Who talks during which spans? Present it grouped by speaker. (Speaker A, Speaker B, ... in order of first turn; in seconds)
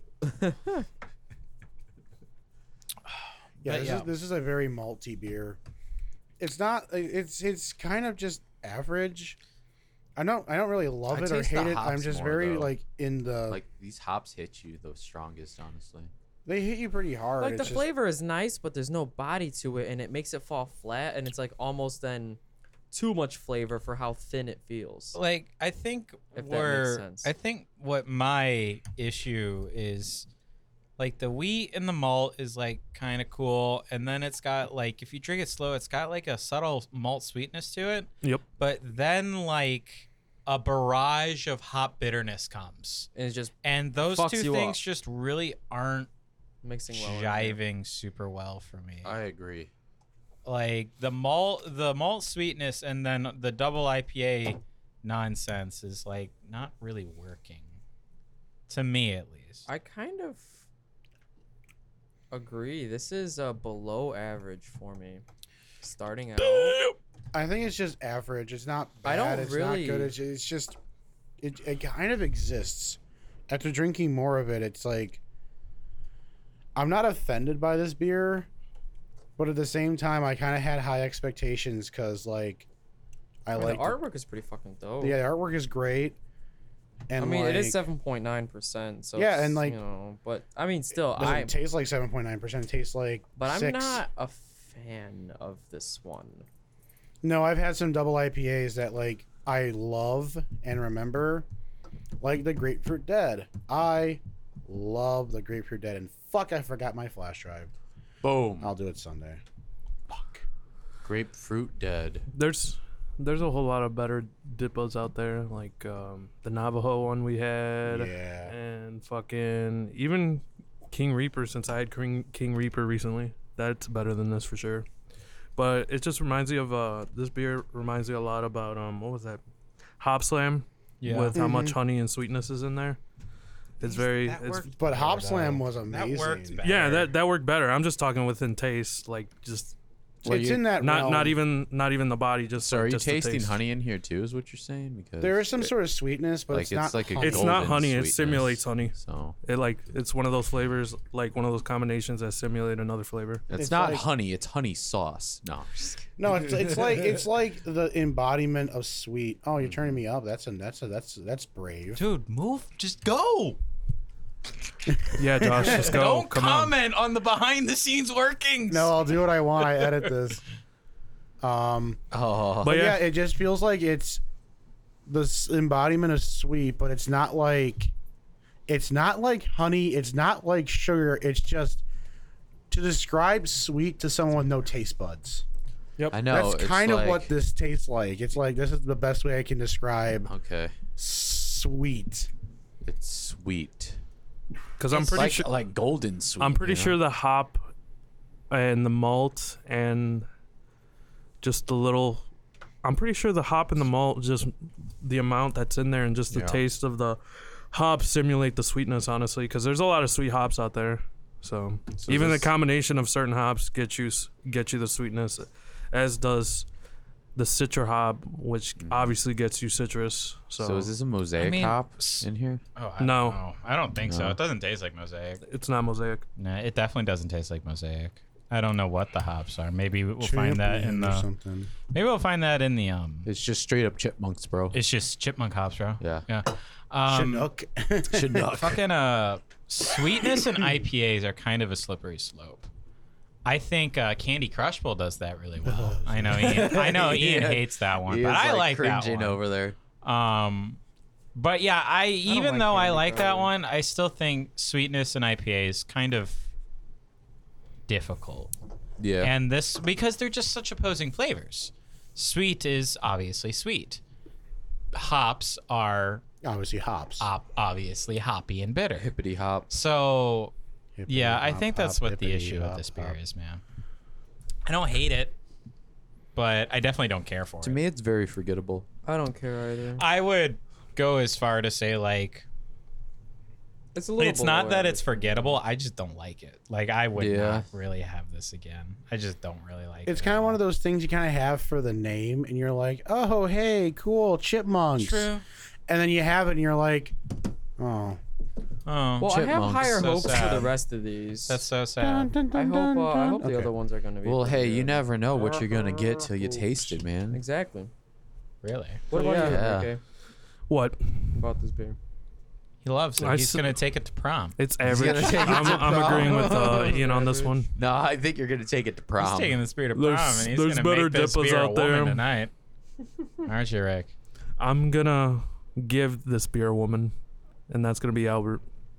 Speaker A: 0.2-0.8, 17.4-22.4, 22.9-25.2, 26.3-27.3, 43.1-44.8, 46.6-47.6, 59.7-60.6, 62.3-65.2, 65.8-66.8, 69.0-70.1, 83.5-85.2, 87.2-91.5, 93.4-96.5, 252.3-253.5, 279.0-280.1, 283.9-285.6, 299.2-301.6, 302.5-305.1, 307.3-307.9, 309.1-310.0, 311.3-312.0, 315.7-317.6
Speaker B: 3.6-4.1, 25.1-30.3, 31.0-43.1, 43.6-46.1, 46.9-49.1, 50.5-57.8, 58.7-59.7, 131.0-131.4, 133.8-137.1, 161.9-163.6, 165.4-169.1, 169.7-170.0, 221.3-225.4, 226.4-231.3, 231.9-233.3, 234.7-237.5, 238.5-242.7, 243.4-249.4, 250.0-250.8, 251.3-256.5, 257.9-258.5, 259.2-264.0, 264.9-266.2, 267.2-269.1, 269.7-270.5, 271.1-273.6, 274.6-275.3, 276.3-277.8, 280.0-282.4, 284.2-290.6, 295.0-295.4, 298.9-300.7, 301.5-302.3, 308.6-309.1, 312.8-314.6, 319.2-322.5, 323.4-324.1
Speaker C: 3.6-5.6, 6.4-9.4, 10.2-13.6, 16.5-17.9, 67.3-70.8, 71.4-75.2, 76.7-78.5, 79.4-82.7, 83.5-84.0, 85.0-86.2, 87.1-87.8, 89.2-89.8, 91.1-94.0, 97.2-101.5, 102.2-107.7, 108.6-109.4, 110.1-110.4, 117.9-118.5, 131.3-131.8, 134.7-136.6, 140.2-141.4, 145.2-147.7, 153.5-154.1, 156.2-162.0, 164.9-166.0, 168.7-170.4, 171.4-172.0, 172.6-174.2, 175.1-177.9, 178.7-181.8, 182.7-185.4, 186.3-190.3, 191.0-192.3, 230.2-231.7, 237.1-238.6, 245.7-246.8, 266.4-267.3, 271.0-273.2, 290.1-295.3, 295.9-297.1, 297.8-298.2, 302.0-303.7, 305.3-307.0
Speaker D: 11.1-12.7, 13.5-16.1, 49.0-49.7, 108.2-108.7, 111.0-112.2, 140.2-140.6, 142.6-145.6, 146.5-149.3, 153.5-155.9, 172.1-172.8, 186.1-187.3, 190.3-190.7, 192.8-194.0, 194.9-197.0, 206.3-206.6, 212.0-212.5, 218.8-219.1, 220.6-222.6, 224.1-224.4, 233.3-234.8, 236.0-236.2, 238.1-238.8, 246.3-249.8, 259.0-259.3, 269.0-269.7, 277.6-278.9, 287.1-287.6, 299.2-300.6, 304.2-307.4, 309.2-309.9, 314.8-317.0, 317.8-319.6
Speaker E: 112.3-124.9, 125.5-129.4, 130.0-133.0, 133.8-134.7, 136.6-139.7, 140.8-143.6, 147.2-153.4, 165.2-166.7, 172.6-173.1, 194.8-195.5, 196.4-197.7, 198.5-200.3, 201.4-202.2, 202.8-216.7, 217.3-220.9, 223.0-223.4, 225.4-226.2, 309.1-309.6, 310.7-311.4, 313.2-313.8, 314.6-317.7, 319.9-322.2, 324.6-327.1, 327.7-328.6